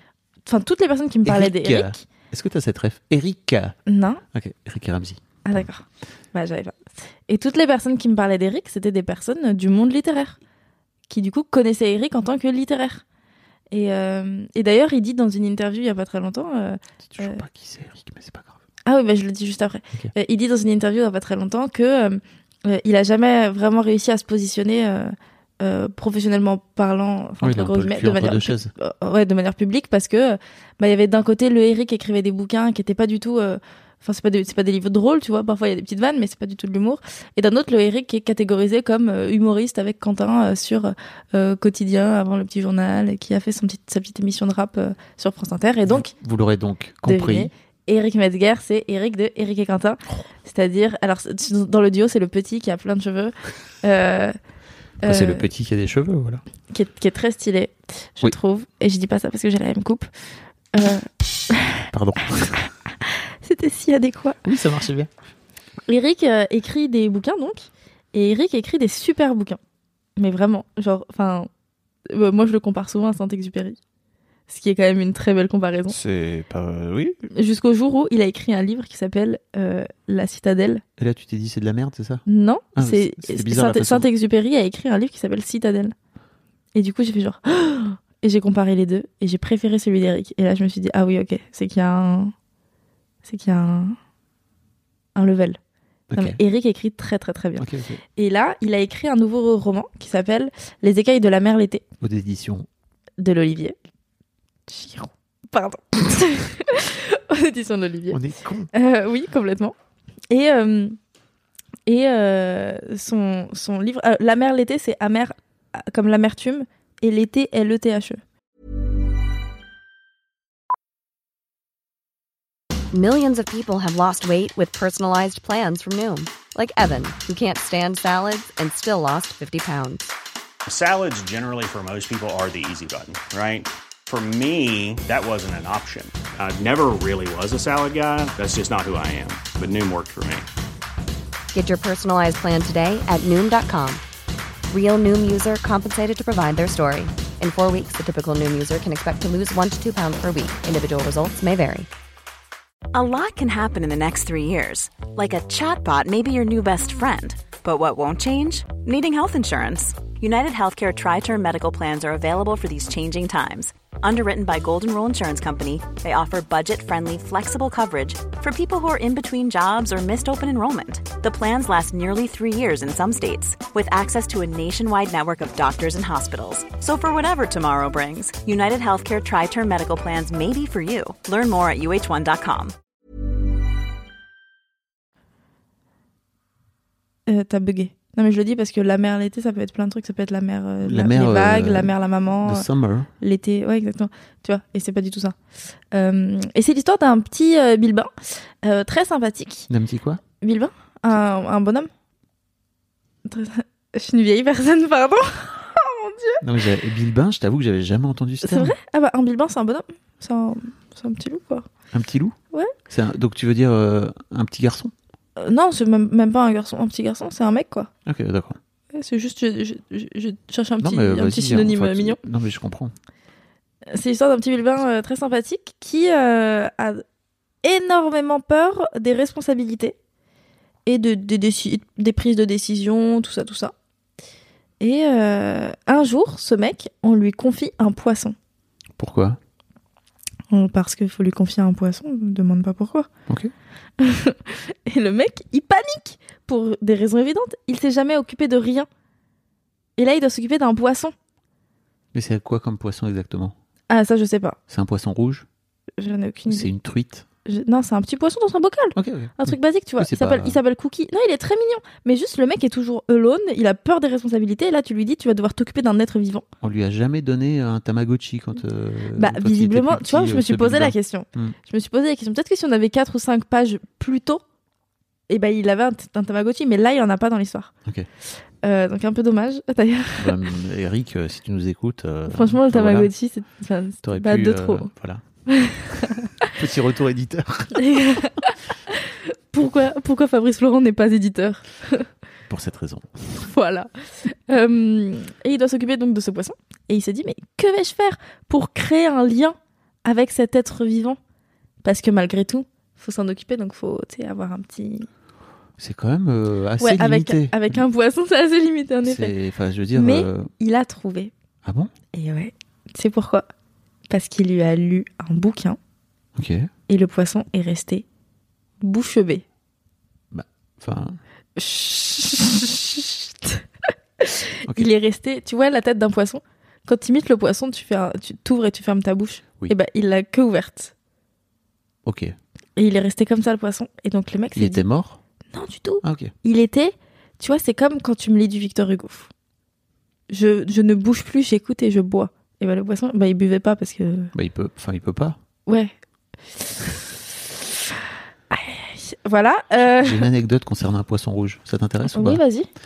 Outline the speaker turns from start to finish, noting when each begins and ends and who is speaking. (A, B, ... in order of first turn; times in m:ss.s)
0:00.4-0:02.0 A
0:01.2-0:03.8 B
0:03.9-0:04.2 A
0:04.3-0:05.2 B
0:05.4-0:10.4 A
0:11.1-0:13.0 A
0:13.7-0:17.4 A
0:17.1-0:18.6 B
0:18.9-0:46.1 A
0:27.4-0:28.7 B
0:45.9-0:47.5 B
0:47.0-0:54.4 A
0:55.0-0:55.5 A
0:55.0-0:56.4 B
0:56.7-1:00.1 A
1:00.7-1:01.9 A
1:01.9-1:02.6 B
1:02.6-1:04.4 A
1:04.4-1:05.1 B
1:05.9-1:09.6 A
1:10.2-1:11.5 A
1:12.1-1:13.8 A
1:14.5-1:16.0 A
1:15.9-1:17.1 B
1:17.3-1:20.8 A
1:21.0-1:22.2 B
1:22.3-1:25.9 A
1:22.8-1:24.1 B
1:26.7-1:32.3 A
1:33.2-1:34.0 A
1:35.2-1:35.6 A
1:36.1-1:36.4 B
1:36.1-1:41.8 A
1:37.6-1:38.0 B
1:42.0-1:42.7 B
1:43.2-1:43.8 A
1:44.7-1:48.2 A
1:48.1-1:48.7 B
1:48.7-1:49.7 A
1:50.3-1:51.0 A
1:51.9-1:58.2 A
2:02.9-2:10.1 C
2:10.7-2:20.5 D
2:21.5-2:24.0 C
2:24.7-2:31.9 C
2:32.9-3:02.7 E
3:07.3-3:12.7 A
3:10.8-3:13.1 B
3:13.2-3:15.4 A
3:15.9-3:18.1 A
3:18.6-3:19.7 A
3:19.7-3:20.2 B
3:20.4-3:21.9 A
3:23.2-3:26.4 A
3:26.4-3:28.8 B
3:28.4-3:31.7 A
3:31.9-3:32.4 B
3:32.9-3:34.9 B
3:35.4-3:37.9 A
3:38.1-3:38.6 B
3:38.9-3:42.2 A
3:40.8-3:42.9 B
3:43.9-3:47.0 A
3:47.6-3:50.0 A
3:50.9-3:53.7 A
3:54.8-3:58.4 A
3:59.0-3:59.4 B
4:00.5-4:03.1 A
4:04.0-4:08.9 A
4:10.0-4:11.1 A
4:12.1-4:13.5 B
4:13.9-4:14.6 A
4:14.7-4:15.5 B
4:16.0-4:16.7 A
4:16.5-4:17.2 B
4:17.4-4:26.4 A
4:19.0-4:20.6 B
4:26.6-4:31.6 B
4:29.2-4:34.4 A
4:35.3-4:37.7 A
4:38.6-4:40.4 A
4:40.2-4:43.1 B
4:42.3-4:44.9 A
4:44.0-4:45.2 B
4:45.5-4:46.5 A
4:46.5-4:48.3 B
4:47.7-4:52.1 A
4:52.5-4:53.1 B
4:53.4-5:01.2 A
5:01.8-5:05.1 A
5:05.8-5:07.8 B
5:06.8-5:09.4 A
5:09.0-5:10.5 B
5:09.9-5:11.3 A
5:11.6-5:11.9 B
5:12.1-5:13.5 A
5:14.1-5:15.8 A
5:16.4-5:16.7 B
5:16.9-5:18.1 A
5:18.8-5:19.4 A
5:20.3-5:21.2 B
5:21.6-5:23.6 A
5:24.2-5:30.9 A
5:32.0-5:32.4 B
5:32.8-5:34.8 A
5:34.6-5:35.2 B
5:35.5-5:39.3 A
5:36.0-5:36.3 B
5:40.3-5:44.3 A
5:44.3-5:45.4 B
5:45.7-5:45.9 A
5:48.5-5:50.3 A
5:49.9-5:52.4 B
5:52.1-5:52.7 A